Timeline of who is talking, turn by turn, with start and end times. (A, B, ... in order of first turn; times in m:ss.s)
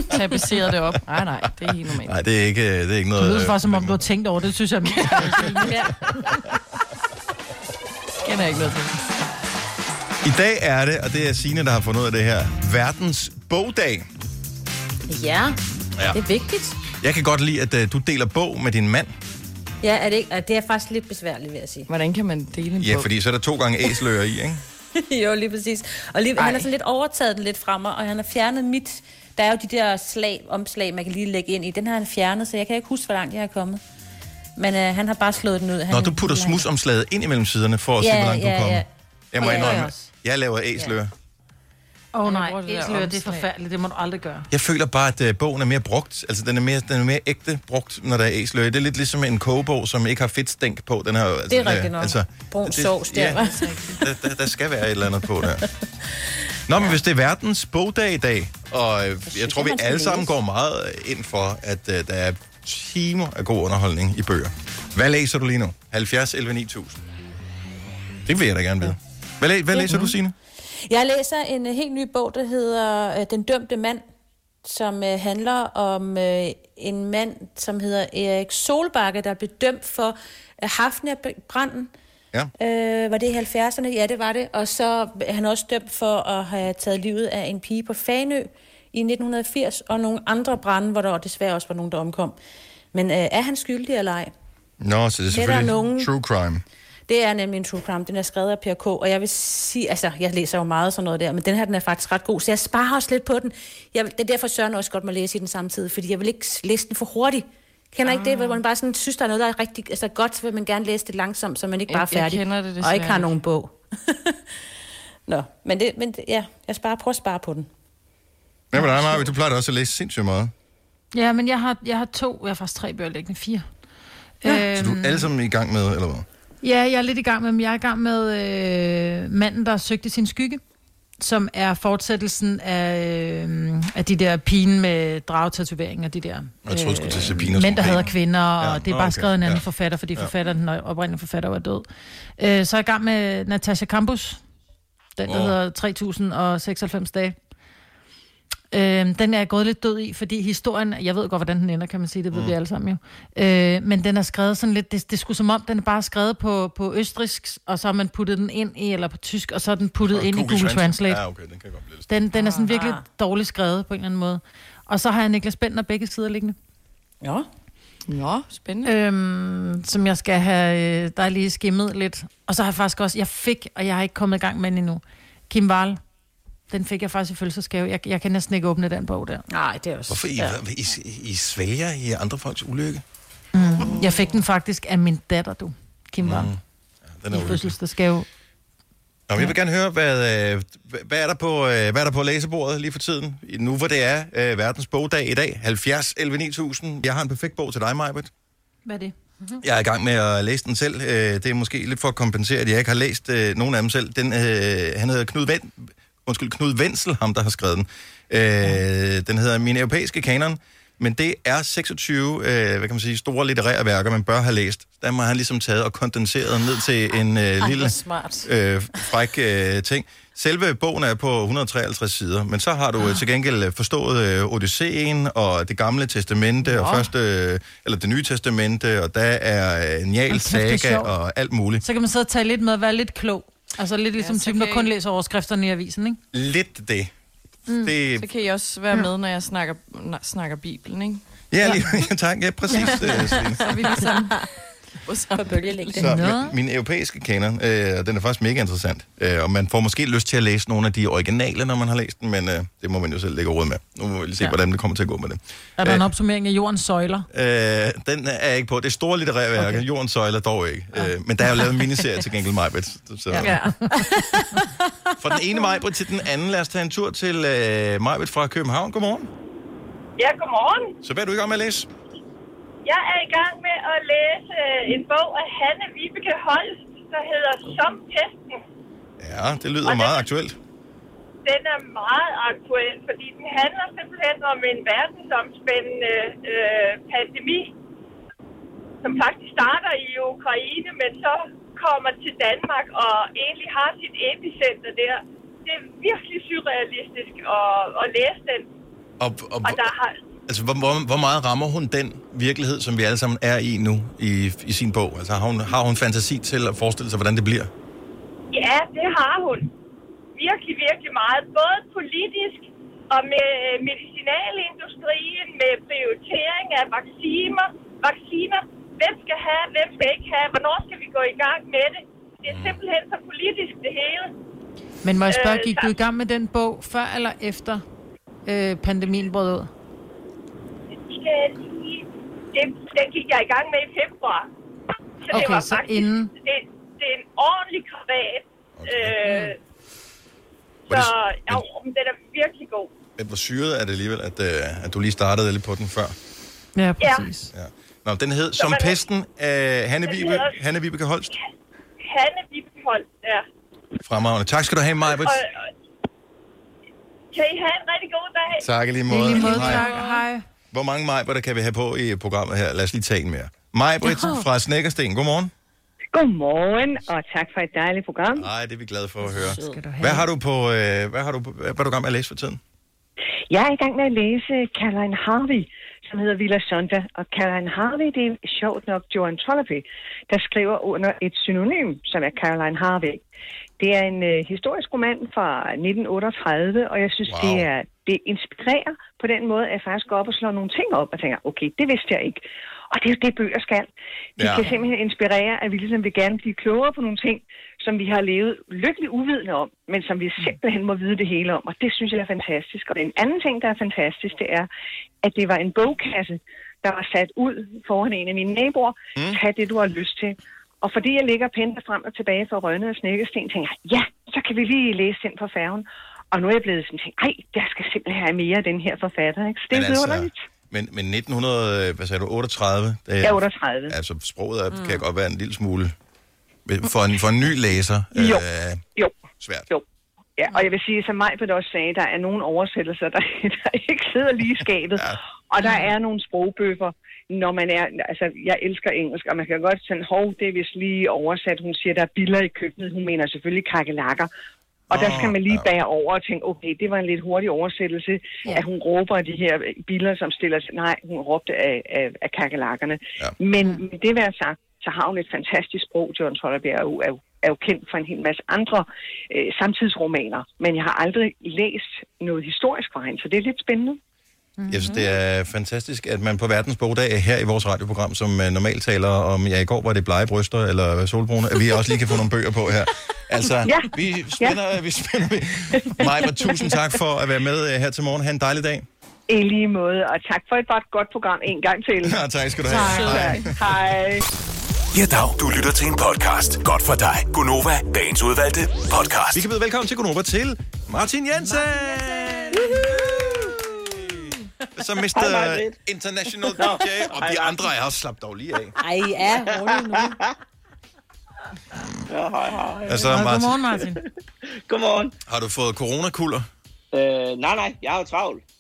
0:00.1-0:02.2 A
0:01.9-0:04.0 B
0:03.2-0:06.0 C
0:05.6-0:06.0 D
0:08.2-0:09.0 A
0:10.2-0:14.1 B
0:15.1-0:15.6 D
0:16.1-0:16.8 D
0:17.0-0:19.1 B
0:19.8-0:21.9 D
0:21.9-0:23.1 A
0:22.8-0:24.6 B
0:25.0-0:33.8 D
0:26.4-0:26.7 A
0:34.6-0:36.7 D
0:35.9-0:41.1 B
0:38.0-0:38.9 D
0:39.4-0:40.0 C
0:39.4-0:39.9 D
0:42.1-0:44.5 C
0:42.3-0:42.6 D
0:42.4-0:43.5 A
0:44.5-0:53.4 B
0:51.5-0:53.6 D
0:53.4-0:54.0 C
0:54.0-0:55.6 B
0:56.2-0:57.0 D
0:56.7-1:07.0 B
0:59.3-1:00.3 D
1:08.3-1:10.3 B
1:09.7-1:10.1 D
1:10.9-1:14.0 D
1:14.6-1:21.9 D
1:22.6-1:32.4 D
1:32.9-1:34.3 D
1:34.8-1:36.6 B
1:35.3-1:36.1 D
1:37.1-1:54.4 D
1:48.0-1:48.6 A
1:51.9-1:53.4 A
1:55.3-1:57.7 D
1:58.7-2:00.5 B
2:01.1-2:03.6 C
2:04.4-2:05.2 C
2:04.7-2:06.3 B
2:06.6-2:10.6 C
2:11.2-2:21.9 C
2:16.6-2:19.6 B
2:22.4-2:24.4 C
2:25.2-2:27.4 C
2:25.3-2:25.6 B
2:28.7-2:41.2 C
2:40.1-2:42.1 B
2:42.1-2:46.6 C
2:42.4-2:43.0 D
2:47.2-2:47.5 D
2:48.1-2:48.9 A
2:48.8-2:56.0 C
2:56.7-2:59.4 C
2:59.5-3:00.6 D
3:00.1-3:03.0 B
3:03.5-3:06.5 C
3:03.8-3:04.4 A
3:06.2-3:07.8 B
3:07.3-3:08.3 C
3:09.3-3:18.3 B
3:18.9-3:19.6 C
3:19.6-3:51.8 B
3:37.6-3:38.5 D
3:50.3-3:51.1 C
3:51.8-3:56.2 C
3:54.2-3:54.9 A
3:56.3-3:57.1 B
3:57.7-3:57.9 C
3:57.7-3:58.3 B
3:58.2-4:01.2 A
4:01.5-4:03.6 B
4:03.6-4:04.5 A
4:03.7-4:04.1 C
4:05.1-4:06.1 A
4:05.4-4:06.3 D
4:06.0-4:16.1 B
4:06.0-4:06.5 C
4:15.8-4:17.3 C
4:17.3-4:23.6 B
4:23.4-4:23.7 D
4:23.5-4:23.9 C
4:25.2-4:29.3 B
4:30.2-4:30.9 E
4:31.0-4:31.9 B
4:32.8-4:38.6 E
4:39.2-4:40.6 B
4:39.8-4:40.2 E
4:41.4-4:47.7 E
4:49.0-4:58.7 E
4:59.2-4:59.9 B
4:59.6-5:00.2 E
5:00.5-5:07.7 B
5:08.5-5:09.7 E
5:10.4-5:24.3 E
5:22.5-5:22.8 B
5:25.0-5:27.8 C
5:25.3-5:25.9 E
5:28.5-5:29.7 C
5:31.0-5:34.5 E
5:35.3-5:39.6 E
5:35.3-5:36.3 C
5:38.8-5:39.2 B
5:40.9-5:42.9 E
5:40.9-5:41.6 B
5:43.2-5:46.2 B
5:46.8-5:47.5 C
5:47.0-5:47.2 E
5:47.5-5:51.3 B
5:48.6-5:49.0 E
5:50.1-5:50.5 E
5:52.0-5:53.4 E
5:54.0-5:55.4 B
5:55.1-5:55.6 E
5:57.3-5:58.6 E
5:58.6-5:59.9 B
5:59.1-6:00.4 C
5:59.5-6:00.0 D
6:00.7-6:05.5 B
6:06.1-6:08.5 F
6:08.4-6:12.6 B
6:09.2-6:09.8 D
6:09.4-6:10.3 C
6:13.5-6:23.2 F
6:23.8-6:44.7 F
6:27.3-6:27.7 B
6:34.4-6:34.7 B
6:45.2-7:00.4 F
6:59.7-7:05.9 B
7:03.2-7:04.0 F
7:04.7-7:05.0 D
7:06.7-7:08.8 B
7:08.1-7:09.8 F
7:09.4-7:09.7 B
7:10.4-7:24.3 F
7:24.9-7:44.0 F
7:24.9-7:25.7 B
7:44.6-7:45.0 C
7:44.7-7:58.9 B
7:53.6-7:54.6 F
7:55.9-7:57.0 F
7:59.3-8:04.2 F
8:02.0-8:03.6 B
8:02.7-8:03.5 C
8:04.9-8:09.5 G
8:09.3-8:18.8 B
8:11.6-8:13.0 C
8:15.2-8:15.8 H
8:16.6-8:17.7 H
8:18.8-8:20.2 D
8:19.5-8:20.3 H
8:22.1-8:22.9 H
8:22.7-8:23.1 D
8:22.8-8:23.6 B
8:23.0-8:24.0 C
8:24.7-8:25.1 H
8:25.3-8:26.5 B
8:26.9-8:28.4 H